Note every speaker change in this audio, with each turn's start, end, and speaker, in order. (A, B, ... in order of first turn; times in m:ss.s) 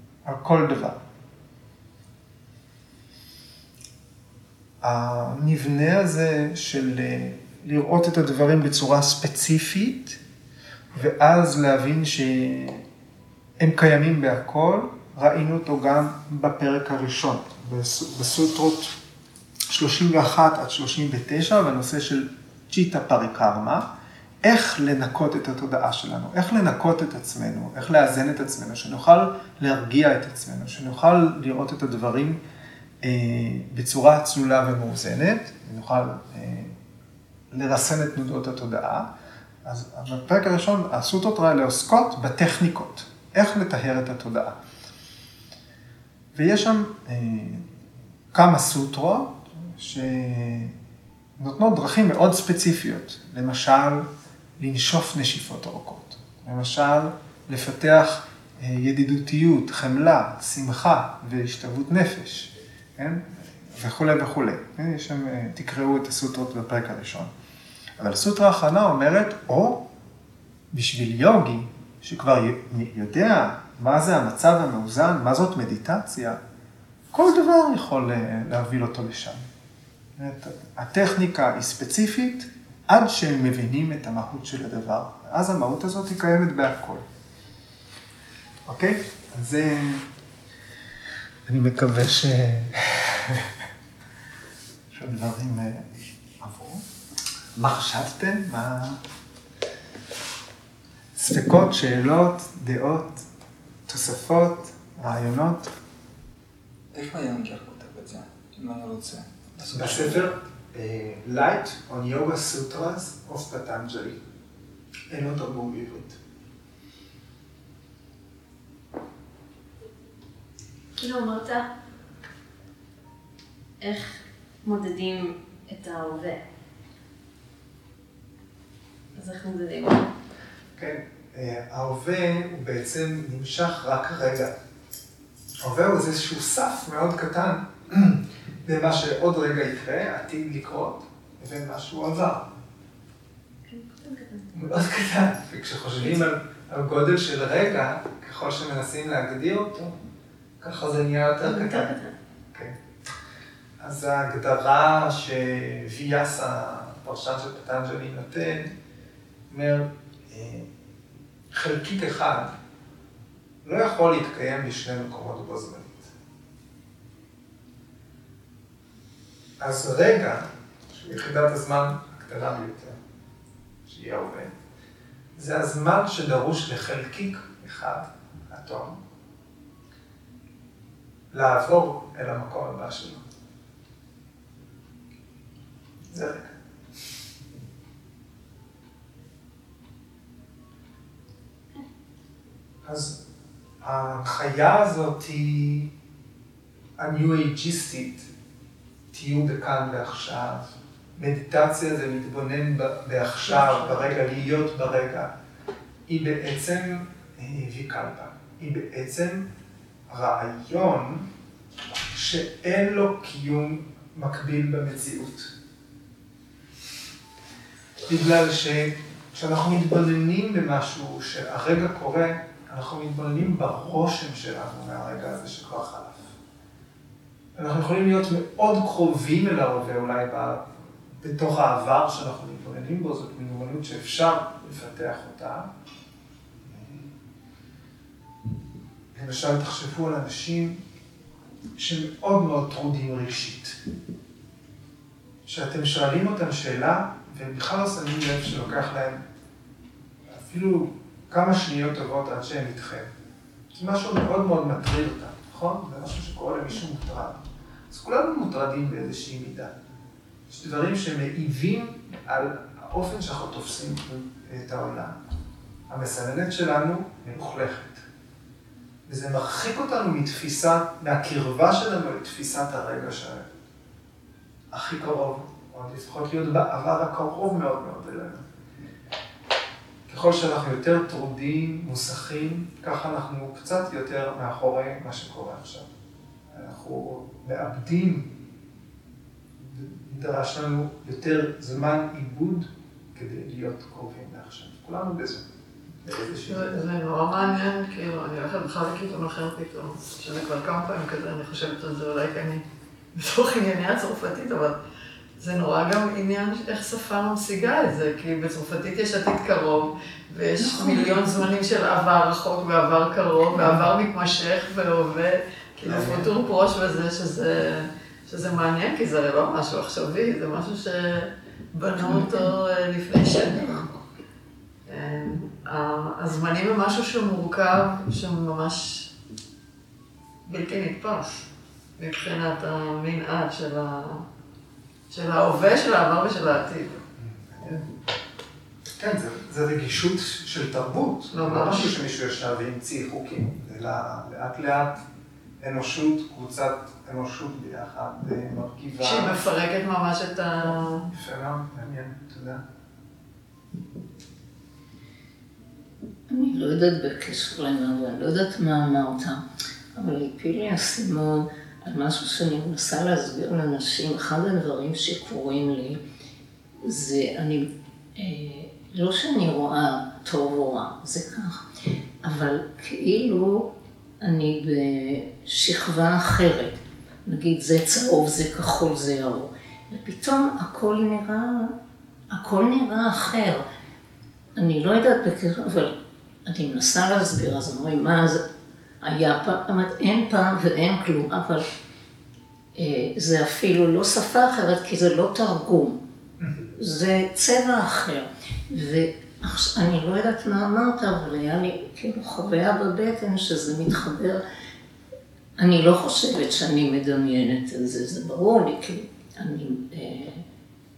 0:00.2-0:01.0 A
0:04.8-0:10.2 A
0:10.9-0:12.8 A
0:13.6-0:18.9 A
0:19.7-0:23.8 A
0:24.4-0:32.4 A
0:33.0-0:36.8 A
0:37.5-0:39.1 A
0:39.6-0:44.6 A
0:46.3-0:47.6 A
0:48.3-0:50.7 A
0:51.4-0:54.1 A
0:54.6-1:07.3 A
1:08.0-1:09.8 A
1:10.7-1:16.4 A
1:17.1-1:19.4 A
1:20.2-1:27.0 A
1:28.7-1:30.0 A
1:31.5-1:33.5 A
1:34.9-1:35.9 A
1:36.4-1:36.8 A
1:37.6-1:39.0 A
1:41.2-1:43.2 A
1:43.9-1:45.7 A
1:46.9-1:50.2 B
1:49.6-1:54.2 A
1:55.1-1:56.2 A
2:01.0-2:01.6 C
2:03.8-2:06.4 C
2:09.1-2:10.1 C
2:10.8-2:14.5 A
2:15.6-2:22.5 A
2:23.7-2:24.5 C
2:24.5-2:29.9 A
2:30.6-2:32.0 A
2:31.4-2:32.1 C
2:33.8-2:38.7 A
2:39.5-2:40.7 A
2:41.5-2:42.5 A
2:43.6-2:46.1 A
2:49.6-2:53.0 A
2:53.8-2:54.5 A
2:55.4-2:59.0 A
3:01.3-3:03.2 A
3:06.1-3:06.6 A
3:12.8-3:13.2 A
3:13.8-3:15.9 A
3:17.0-3:18.3 A
3:19.1-3:25.3 A
3:26.1-3:29.5 A
3:30.1-3:31.3 A
3:32.1-3:35.5 A
3:38.0-3:46.3 A
3:47.5-3:50.6 A
3:51.2-3:55.7 A
3:56.6-3:57.1 A
3:59.1-4:00.8 A
4:01.8-4:03.8 A
4:05.4-4:09.2 A
4:10.3-4:13.1 A
4:13.7-4:19.7 A
4:20.5-4:25.2 A
4:25.9-4:28.0 A
4:29.1-4:33.4 A
4:34.7-4:38.4 A
4:40.1-4:45.9 A
4:46.5-4:48.3 A
4:49.6-4:55.4 A
4:56.0-4:56.8 A
4:56.5-5:04.8 D
5:05.4-5:23.9 D
5:15.9-5:16.3 A
5:24.8-5:29.1 D
5:30.5-5:31.4 D
5:32.0-5:34.2 D
5:35.1-5:37.0 D
5:37.2-5:37.9 A
5:38.9-5:45.0 A
5:41.3-5:41.9 D
5:45.6-5:49.4 A
5:49.0-5:51.1 D
5:50.7-5:52.6 A
5:56.3-5:59.4 E
5:59.9-6:06.0 E
6:06.8-6:11.6 E
6:12.2-6:21.7 E
6:22.3-6:23.6 E
6:24.6-6:25.9 E
6:26.4-6:28.4 E
6:29.0-6:31.6 E
6:32.8-6:36.0 E
6:36.7-6:44.4 E
6:45.6-6:50.4 E